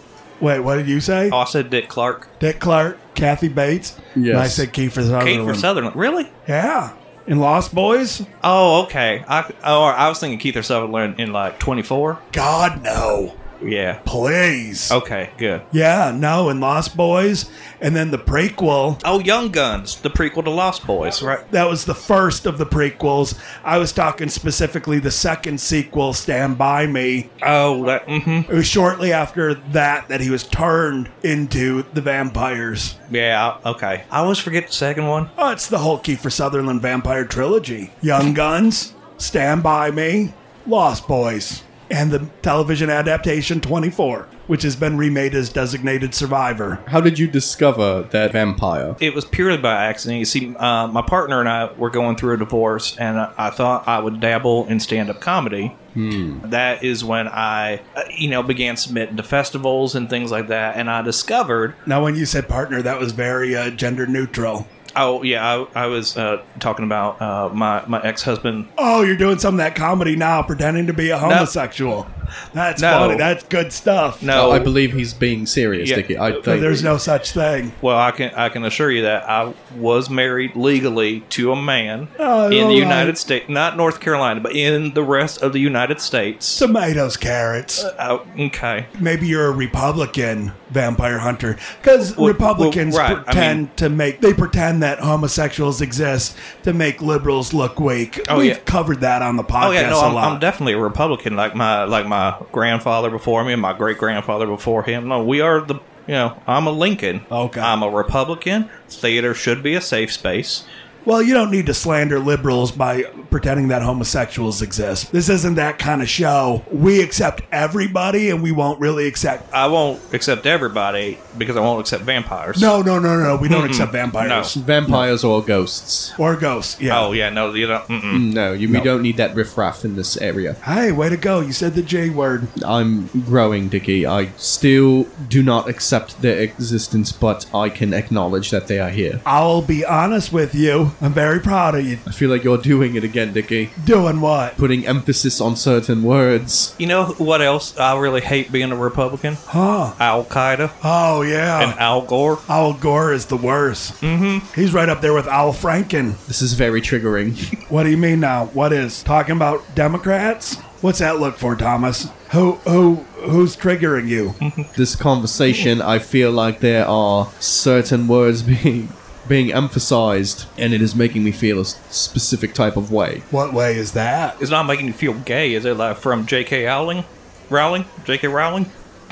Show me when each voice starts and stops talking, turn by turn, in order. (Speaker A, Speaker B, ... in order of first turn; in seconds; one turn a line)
Speaker A: 0.4-1.4
Speaker B: 1.3-2.3
Speaker A: 2.4-5.7
Speaker C: 4.2-4.7
Speaker B: 5.2-6.3
Speaker A: 6.5-8.3
Speaker B: 8.4-12.2
Speaker A: 12.3-13.4
Speaker B: 13.6-14.0
Speaker A: 14.1-15.0
Speaker B: 14.9-15.6
Speaker A: 15.7-19.0
Speaker B: 19.0-21.4
Speaker A: 21.5-27.3
Speaker B: 27.4-28.5
Speaker A: 28.5-33.0
Speaker B: 33.1-35.3
Speaker A: 35.4-46.8
Speaker C: 46.9-49.0
Speaker B: 49.0-55.8
Speaker C: 56.0-56.5
Speaker B: 56.5-61.8
Speaker A: 61.9-64.7
Speaker B: 65.0-68.7
Speaker A: 68.8-74.3
Speaker B: 71.2-71.5
Speaker B: 72.8-73.3
Speaker B: 74.2-74.7
Speaker C: 74.3-76.8
Speaker B: 75.8-76.8
Speaker A: 76.5-77.8
Speaker B: 77.8-86.7
Speaker A: 82.2-83.2
Speaker A: 86.6-87.9
Speaker B: 87.8-88.9
Speaker A: 89.0-100.4
Speaker B: 92.0-93.6
Speaker B: 98.3-98.6
Speaker B: 99.6-110.6
Speaker A: 107.3-107.8
Speaker A: 111.0-119.5
Speaker B: 119.5-122.8
Speaker A: 122.6-125.0
Speaker B: 123.4-124.5
Speaker C: 124.5-126.2
Speaker A: 126.2-127.1
Speaker B: 126.9-128.3
Speaker C: 128.1-130.6
Speaker A: 130.6-132.5
Speaker C: 132.6-139.2
Speaker A: 139.2-142.0
Speaker C: 142.1-143.7
Speaker A: 143.8-144.6
Speaker C: 144.6-146.7
Speaker B: 146.8-149.4
Speaker A: 149.5-149.9
Speaker B: 150.0-150.8
Speaker A: 150.8-151.8
Speaker B: 151.6-152.4
Speaker A: 152.5-154.0
Speaker B: 154.0-154.5
Speaker A: 154.5-156.2
Speaker C: 156.3-157.6
Speaker A: 157.7-164.4
Speaker B: 164.4-164.7
Speaker C: 164.8-173.2
Speaker A: 173.3-174.4
Speaker B: 174.4-178.7